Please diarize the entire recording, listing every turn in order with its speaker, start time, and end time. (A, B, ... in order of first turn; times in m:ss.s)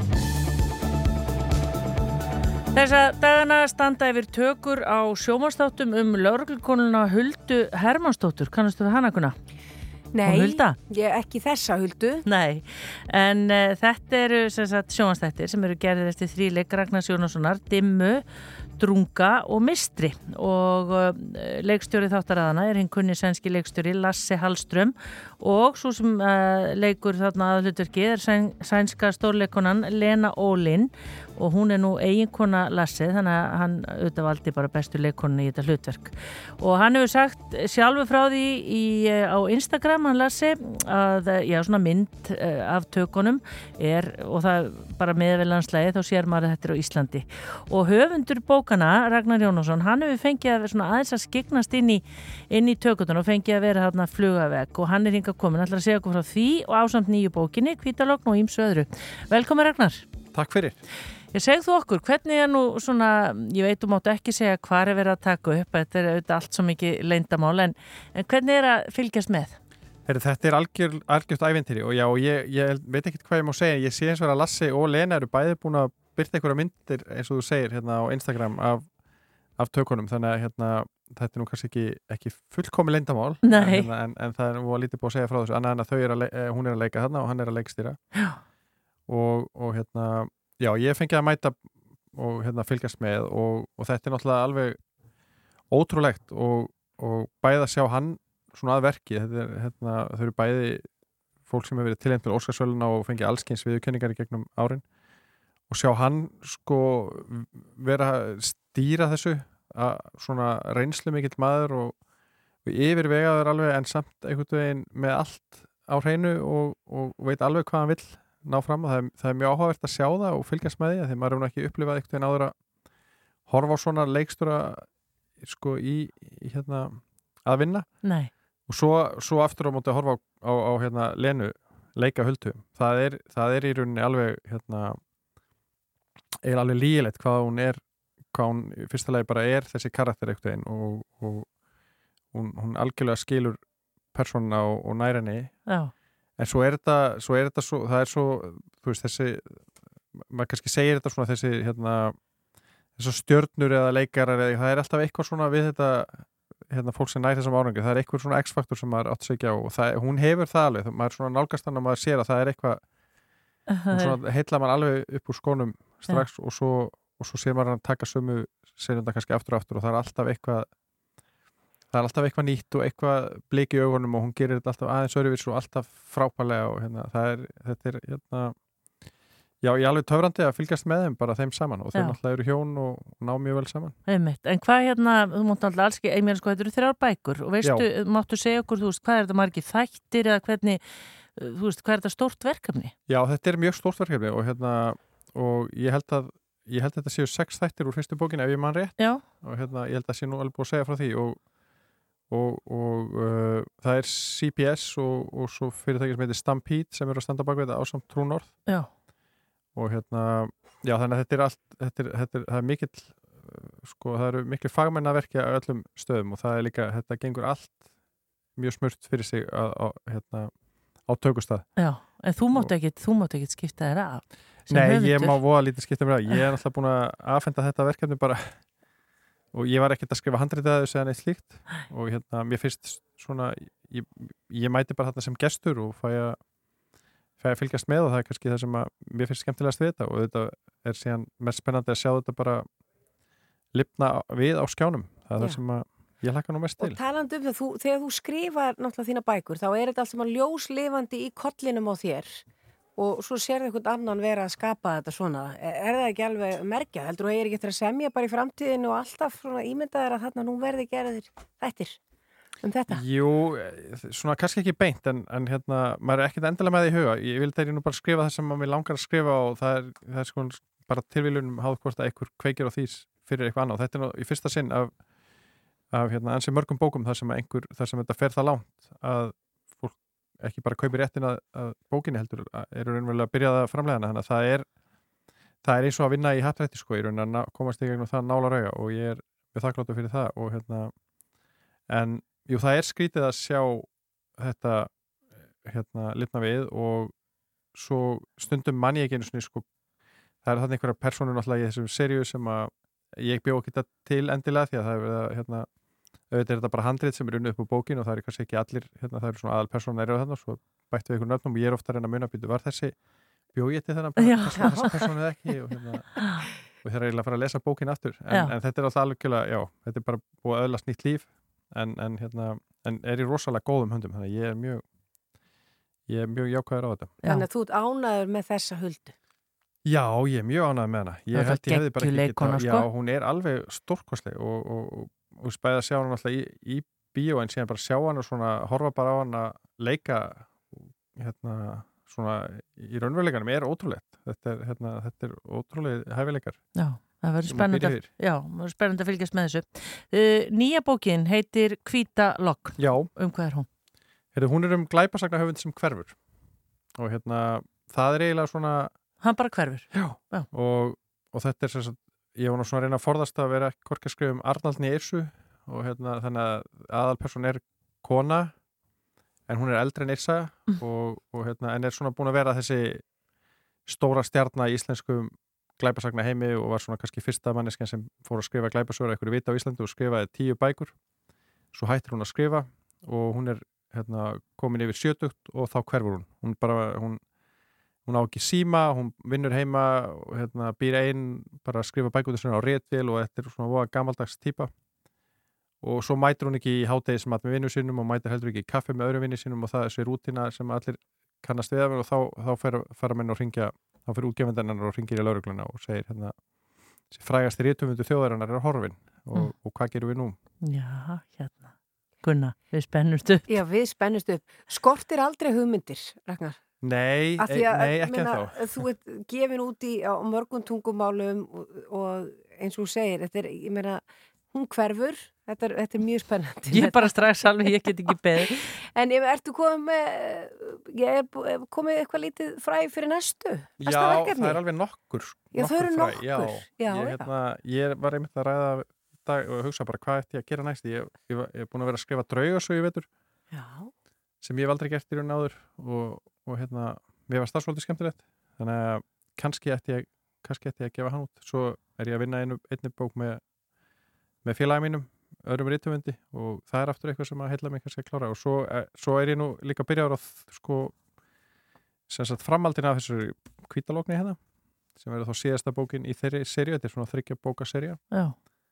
0:02.7-0:09.3 A
0:10.1-0:12.2 B
0:10.3-0:10.8 A
0:12.3-0:18.2 A
0:18.8-1:00.0 A
1:00.3-1:00.8 C
1:01.3-1:09.6 A
1:10.1-1:18.9 C
1:19.6-1:28.0 C
1:23.4-1:23.9 A
1:29.1-1:31.6 C
1:32.1-1:34.8 C
1:35.7-1:40.9 C
1:41.4-1:44.8 C
1:45.7-1:52.0 C
1:52.6-2:02.6 C
2:03.5-2:04.9 C
2:05.4-2:08.0 C
2:08.0-2:08.3 A
2:08.7-2:15.0 C
2:16.4-2:21.5 C
2:22.3-2:23.6 C
2:24.1-2:25.7 C
2:26.4-2:29.6 C
2:30.2-2:32.2 C
2:33.0-2:42.8 C
2:43.7-2:44.2 A
2:43.9-2:50.7 C
2:51.9-2:58.6 C
2:59.6-3:04.0 C
3:04.1-3:10.8 A
3:11.4-3:12.9 A
3:13.1-3:21.4 C
3:22.3-3:28.6 C
3:29.7-3:37.8 C
3:38.6-3:41.7 C
3:41.8-3:45.4 A
3:44.7-3:48.6 C
3:49.5-3:56.4 C
3:57.4-4:02.6 C
4:03.7-4:07.0 C
4:06.8-4:12.4 B
4:13.0-4:22.0 B
4:22.6-4:23.0 B
4:22.9-4:35.0 C
4:35.9-4:44.7 C
4:45.6-4:50.9 C
4:51.9-4:54.9 C
4:55.6-4:57.1 C
4:57.7-4:59.7 C
5:00.4-5:05.7 C
5:06.3-5:13.0 C
5:13.5-5:24.8 C
5:14.2-5:15.0 A
5:16.2-5:16.5 A
5:26.1-5:27.2 C
5:27.2-5:29.1 B
5:29.9-5:46.7 C
5:31.3-5:32.9 A
5:46.8-5:53.7 A
5:47.5-5:48.1 C
5:52.8-5:53.1 C
5:54.3-5:56.2 C
5:57.0-5:58.9 C
5:59.2-6:00.5 A
5:59.9-6:08.5 C
6:09.5-6:13.0 C
6:13.9-6:20.9 C
6:21.7-6:27.2 C
6:28.0-6:34.7 C
6:35.8-6:46.4 C
6:47.1-6:50.4 C
6:50.6-6:53.5 A
6:53.5-6:56.6 B
6:56.8-6:58.8 C
6:57.4-7:07.7 B
7:06.7-7:08.7 A
7:08.4-7:14.6 B
7:13.8-7:23.1 C
7:15.5-7:17.3 B
7:23.5-7:23.9 B
7:24.4-7:33.4 C
7:34.4-7:40.9 C
7:42.1-7:44.4 C
7:45.0-7:48.0 C